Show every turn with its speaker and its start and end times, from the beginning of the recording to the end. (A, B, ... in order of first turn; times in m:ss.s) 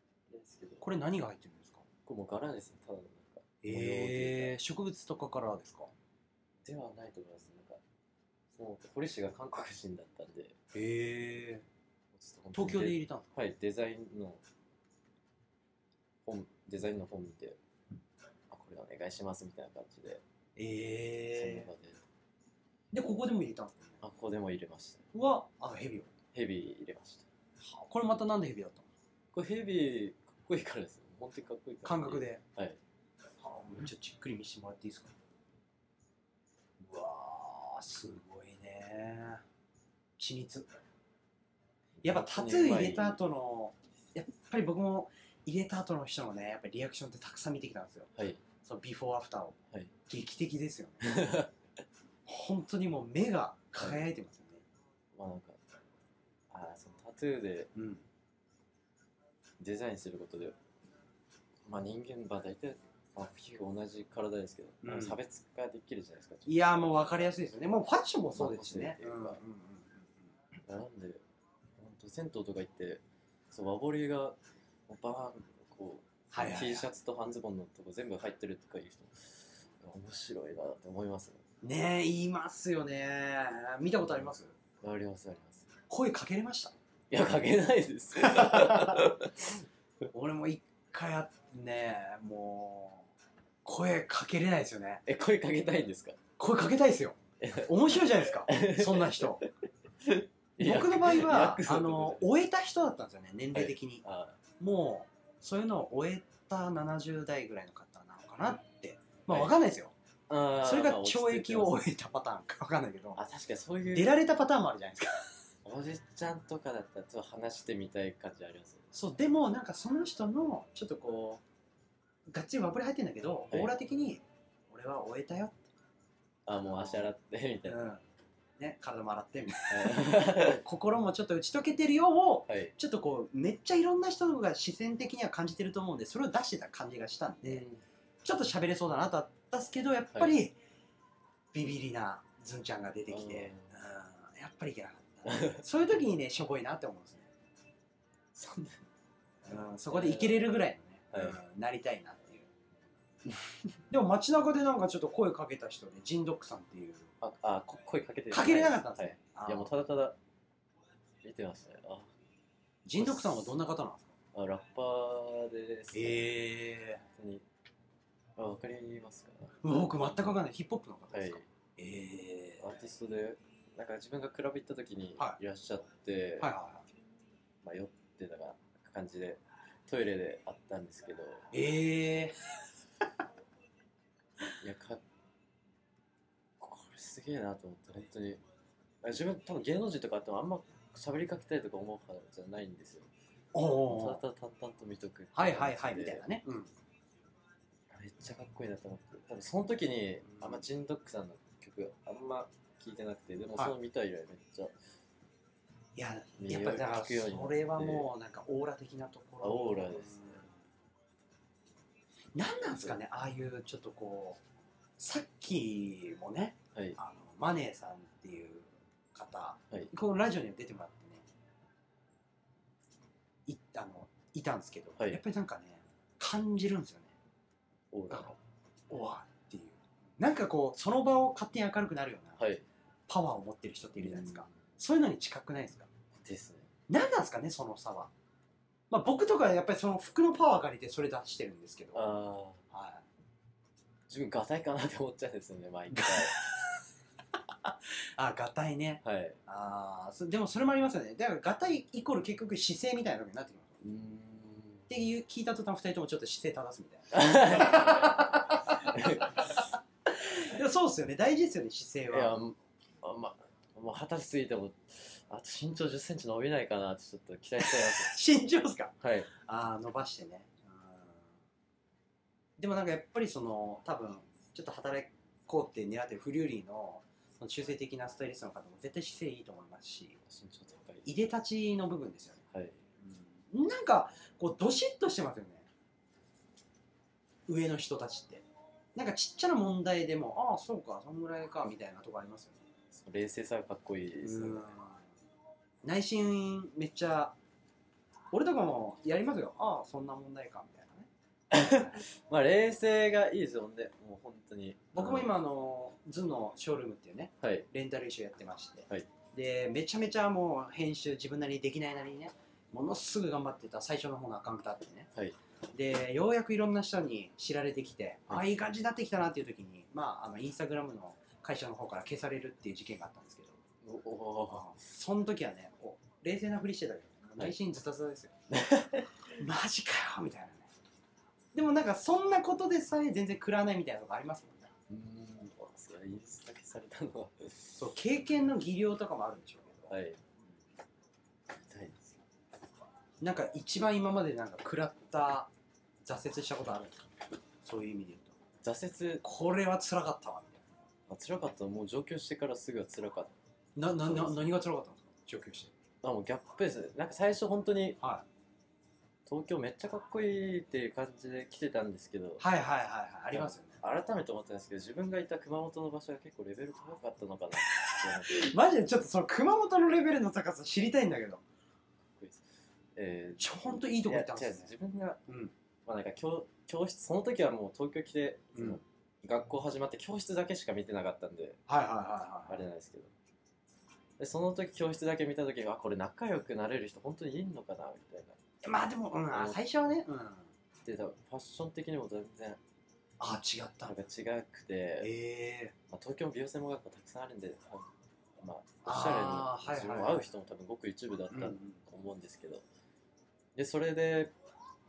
0:00.3-0:00.8 A
0:00.8-0:01.8 B
0:02.0-0:04.6 A
0:03.6-0:05.9 B
0:06.6-0:07.8 A
0:08.5-0:10.6 A
0:10.7-0:11.6 B
0:12.1-0:14.4 A
0:12.5-0:13.3 B
0:16.2-0:17.6 A
0:18.5-0:20.2 A
0:20.6-0:21.7 B
0:21.3-0:22.0 A
0:22.9-0:24.0 B
0:24.0-0:25.0 A
0:25.1-0:26.1 B
0:26.3-0:27.3 A
0:27.6-0:28.9 B
0:29.3-0:32.8 A
0:31.8-0:32.4 B
0:33.4-0:35.1 B
0:36.8-0:39.4 B
0:40.2-0:40.7 B
0:42.0-0:43.2 A
0:42.0-0:48.1 B
0:48.2-0:48.4 A
0:48.6-0:51.3 B
0:51.0-0:51.5 A
0:52.2-0:54.6 B
0:55.1-0:55.6 A
0:56.5-0:57.7 A
0:57.7-0:58.0 B
0:59.6-1:00.6 A
1:01.6-1:07.3 A
1:04.8-1:05.2 B
1:06.4-1:10.1 B
1:08.3-1:09.4 A
1:10.6-1:11.2 A
1:11.8-1:14.4 A
1:14.9-1:21.4 A
1:16.3-1:16.9 B
1:21.6-1:24.5 B
1:24.8-1:25.7 A
1:25.9-1:26.7 B
1:27.1-1:29.5 A
1:28.2-1:29.1 B
1:30.1-1:33.1 B
1:33.6-1:35.0 B
1:35.0-1:36.2 A
1:36.4-1:39.4 B
1:37.4-1:42.3 A
1:40.6-1:44.0 B
1:43.5-1:44.4 A
1:44.6-1:49.9 B
1:49.3-1:49.6 A
1:50.3-1:51.8 A
1:50.6-1:53.2 B
1:53.2-1:54.1 A
1:53.9-1:55.3 B
1:55.6-1:58.9 A
1:58.9-2:01.4 B
2:02.3-2:05.6 B
2:06.4-2:07.8 A
2:06.6-2:07.1 B
2:07.6-2:08.0 B
2:08.6-2:17.6 B
2:09.7-2:10.6 A
2:12.5-2:12.7 A
2:17.4-2:17.8 A
2:18.2-2:20.6 B
2:20.1-2:20.4 A
2:21.5-2:27.3 B
2:23.1-2:23.7 A
2:25.3-2:25.6 A
2:28.3-2:28.8 A
2:29.4-2:32.5 B
2:29.9-2:30.5 A
2:31.1-2:31.4 A
2:33.9-2:37.1 B
2:37.2-2:40.2 A
2:38.3-2:39.7 B
2:41.2-2:42.1 A
2:42.8-2:44.1 B
2:43.0-2:43.5 A
2:44.3-2:46.3 A
2:45.9-2:47.0 B
2:47.1-2:47.4 A
2:48.4-2:50.4 A
2:49.6-2:52.6 B
2:51.1-2:51.5 A
2:52.6-2:56.5 A
2:56.4-2:56.8 B
2:57.6-3:01.5 A
3:01.5-3:02.4 B
3:04.6-3:05.0 A
3:06.6-3:08.4 A
3:09.0-3:13.1 A
3:13.5-3:14.2 B
3:13.8-3:16.2 A
3:15.3-3:16.7 B
3:17.9-3:24.7 A
3:20.2-3:20.6 B
3:26.0-3:30.5 B
3:26.4-3:28.1 A
3:29.4-3:30.4 A
3:32.3-3:34.4 B
3:35.0-3:41.2 B
3:43.5-3:47.1 B
3:47.9-3:48.4 A
3:48.9-3:52.4 B
3:52.4-3:52.6 A
3:53.1-3:55.9 B
3:54.0-3:54.5 A
3:56.1-3:56.7 A
3:56.9-3:58.1 B
3:58.9-4:02.2 B
4:01.9-4:02.6 A
4:02.7-4:03.0 B
4:04.1-4:06.4 A
4:05.9-4:06.8 B
4:07.6-4:13.8 B
4:09.0-4:09.4 A
4:13.8-4:14.9 A
4:14.9-4:22.4 B
4:17.1-4:19.6 A
4:22.1-4:28.2 A
4:27.6-4:31.2 B
4:29.0-4:29.3 A
4:32.6-4:40.2 B
4:40.2-4:41.1 A
4:41.0-4:42.4 B
4:42.5-4:42.8 A
4:43.0-4:45.7 B
4:47.5-4:52.6 B
4:52.9-4:54.7 A
4:54.2-4:55.0 B
4:55.8-4:57.4 B
4:58.3-5:01.1 B
5:01.5-5:05.3 A
5:04.9-5:15.1 B
5:07.4-5:07.7 A
5:15.7-5:23.6 B
5:23.8-5:24.7 A
5:24.5-5:28.3 B
5:28.5-5:29.1 A
5:29.2-5:30.7 B
5:31.5-5:34.7 B
5:34.9-5:37.8 A
5:37.8-5:39.9 B
5:39.9-5:40.2 A
5:41.6-5:42.2 A
5:43.2-5:45.5 B
5:46.0-5:47.1 B
5:47.6-5:48.3 B
5:48.6-5:49.2 A
5:49.2-5:50.6 B
5:51.1-5:53.3 A
5:53.8-5:55.7 B
5:54.0-5:54.4 A
5:56.0-5:58.0 A
5:58.0-5:58.2 B
5:59.2-6:02.4 A
6:02.4-6:03.8 B
6:03.3-6:08.5 A
6:07.7-6:11.4 B
6:12.1-6:15.2 A
6:13.4-6:14.7 B
6:15.3-6:15.5 B
6:15.8-6:21.6 A
6:18.5-6:18.8 B
6:21.7-6:22.6 B
6:22.5-6:23.1 A
6:24.2-6:28.4 A
6:28.6-6:30.5 B
6:29.3-6:29.6 A
6:30.8-6:32.6 A
6:33.2-6:33.9 B
6:33.8-6:35.1 A
6:35.0-6:35.7 B
6:35.9-6:42.6 A
6:38.8-6:40.3 B
6:41.3-6:41.8 B
6:43.5-6:44.3 A